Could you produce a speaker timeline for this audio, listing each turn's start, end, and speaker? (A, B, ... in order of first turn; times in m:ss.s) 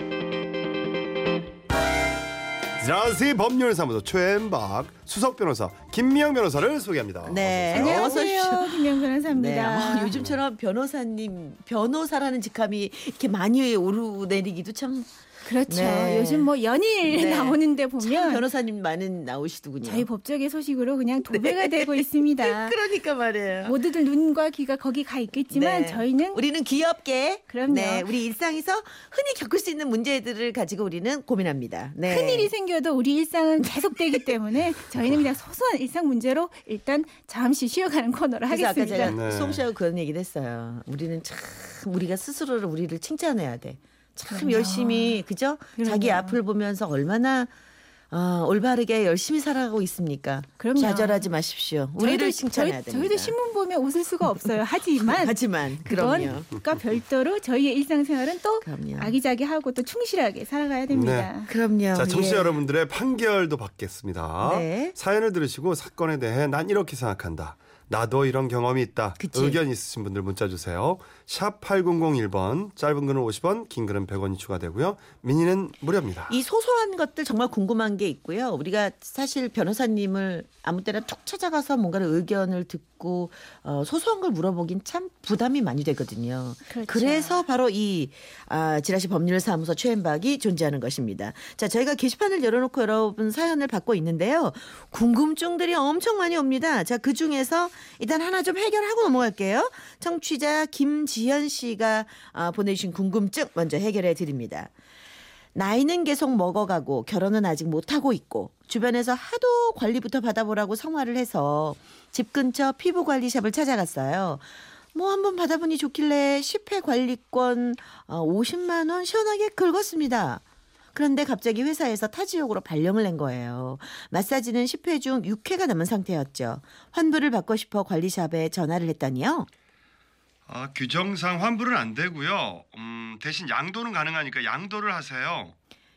0:02.8-0:08.2 A
0:07.2-0:15.1 B
0:07.7-0:10.1 C
0:10.1-0:10.4 A
0:15.4-0:18.4 C
0:15.6-0:16.5 B
0:17.0-0:20.1 B
0:19.8-0:22.8 C
0:21.3-0:23.8 B
0:23.6-0:26.4 C
0:25.5-0:32.5 B
0:27.5-0:28.1 C
0:32.0-0:39.2 C
0:33.6-0:34.3 B
0:38.5-0:47.5 B
0:39.0-0:39.6 A
0:44.3-0:45.2 C
0:45.8-0:46.4 C
0:48.1-0:53.3 B
0:50.6-0:51.3 C
0:52.0-1:01.5 C
0:54.9-0:56.5 B
0:58.6-0:59.1 B
1:00.9-1:01.3 A
1:01.5-1:02.6 B
1:01.9-1:16.3 A
1:04.4-1:05.0 B
1:09.2-1:09.6 B
1:16.3-1:44.7 B
1:26.7-1:27.4 C
1:45.6-2:00.4 B
2:01.0-2:09.5 B
2:10.5-2:15.5 A